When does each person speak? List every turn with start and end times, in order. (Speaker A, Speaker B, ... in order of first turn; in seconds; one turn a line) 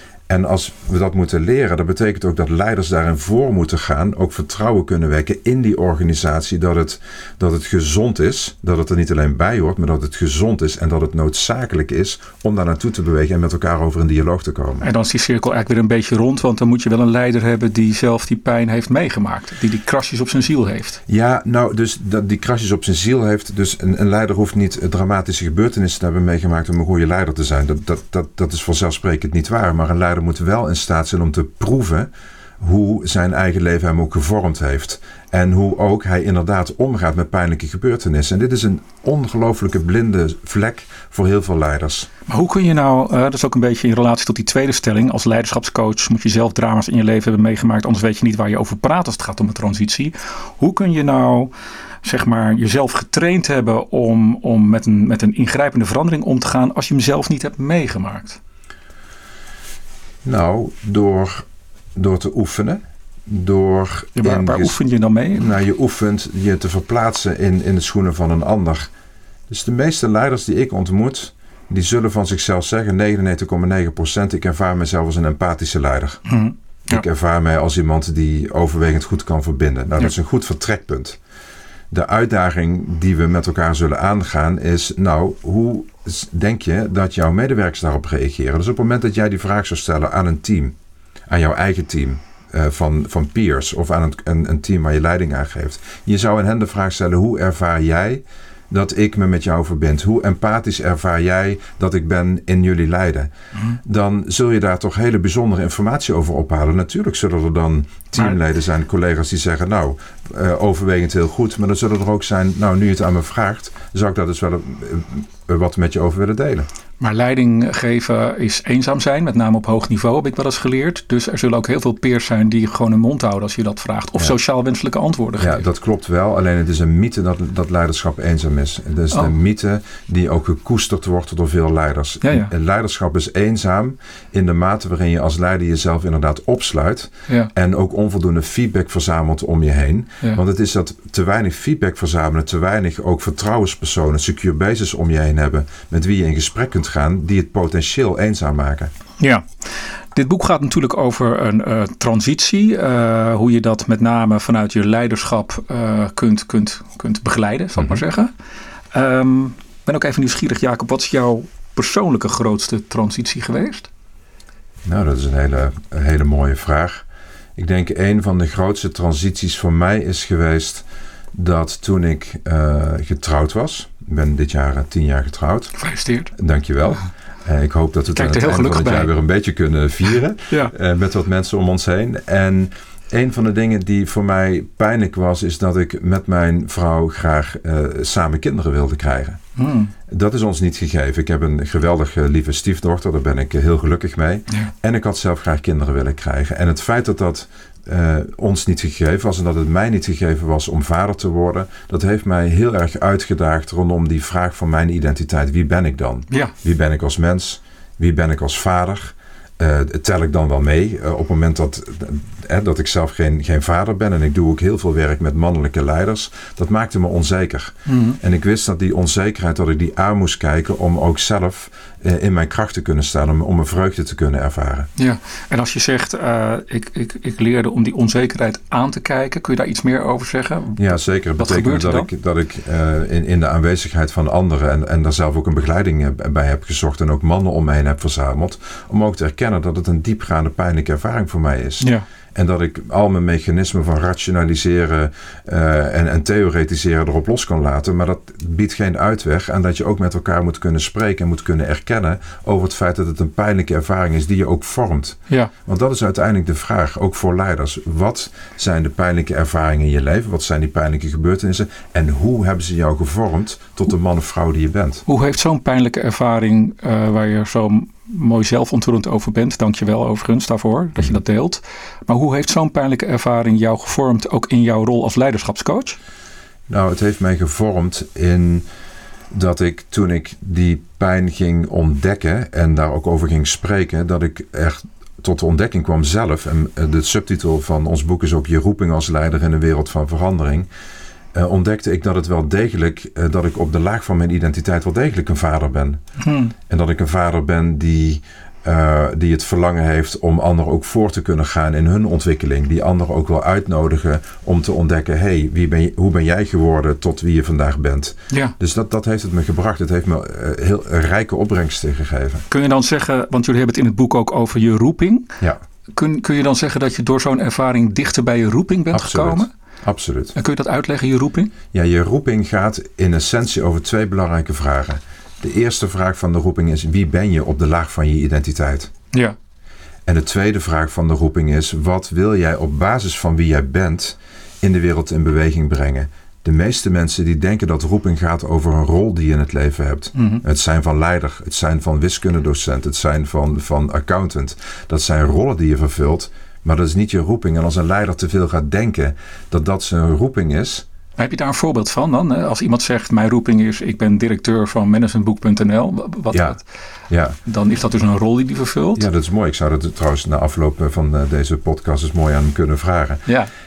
Speaker A: 0.3-14.9
Speaker B: 14.8-21.0
Speaker A: 21.1-42.1
Speaker B: 42.3-51.5
Speaker B: 52.0-58.4
Speaker A: 60.2-64.8
Speaker B: 64.2-65.5
Speaker A: 65.4-68.9
Speaker A: 69.5-76.2
Speaker B: 76.3-77.0
Speaker A: 76.9-81.2
Speaker A: 81.9-90.8
Speaker A: 91.3-103.3
Speaker A: 103.8-116.7
Speaker B: 117.0-125.7
Speaker A: 125.4-148.9
Speaker B: 132.2-132.5
Speaker B: 149.2-149.6
Speaker B: 150.1-158.3
Speaker B: 158.9-163.9
Speaker A: 164.8-167.1
Speaker A: 167.6-175.8
Speaker B: 175.8-176.3
Speaker A: 176.3-189.4
Speaker B: 178.2-179.1
Speaker B: 189.6-189.9
Speaker A: 190.1-224.9
Speaker B: 217.9-218.2
Speaker B: 225.0-232.1
Speaker A: 230.8-265.0
Speaker B: 265.1-276.0
Speaker A: 276.7-278.6
Speaker A: 279.3-290.7
Speaker A: 291.3-296.0
Speaker B: 296.2-296.5
Speaker A: 296.6-312.4
Speaker B: 312.5-315.3
Speaker B: 315.9-319.5
Speaker A: 318.9-320.3
Speaker B: 320.4-321.5
Speaker A: 321.7-328.9
Speaker A: 330.1-350.9
Speaker B: 340.1-340.4
Speaker B: 351.2-356.6
Speaker A: 356.3-356.6
Speaker A: 357.1-357.4
Speaker B: 357.4-359.1
Speaker A: 359.0-363.3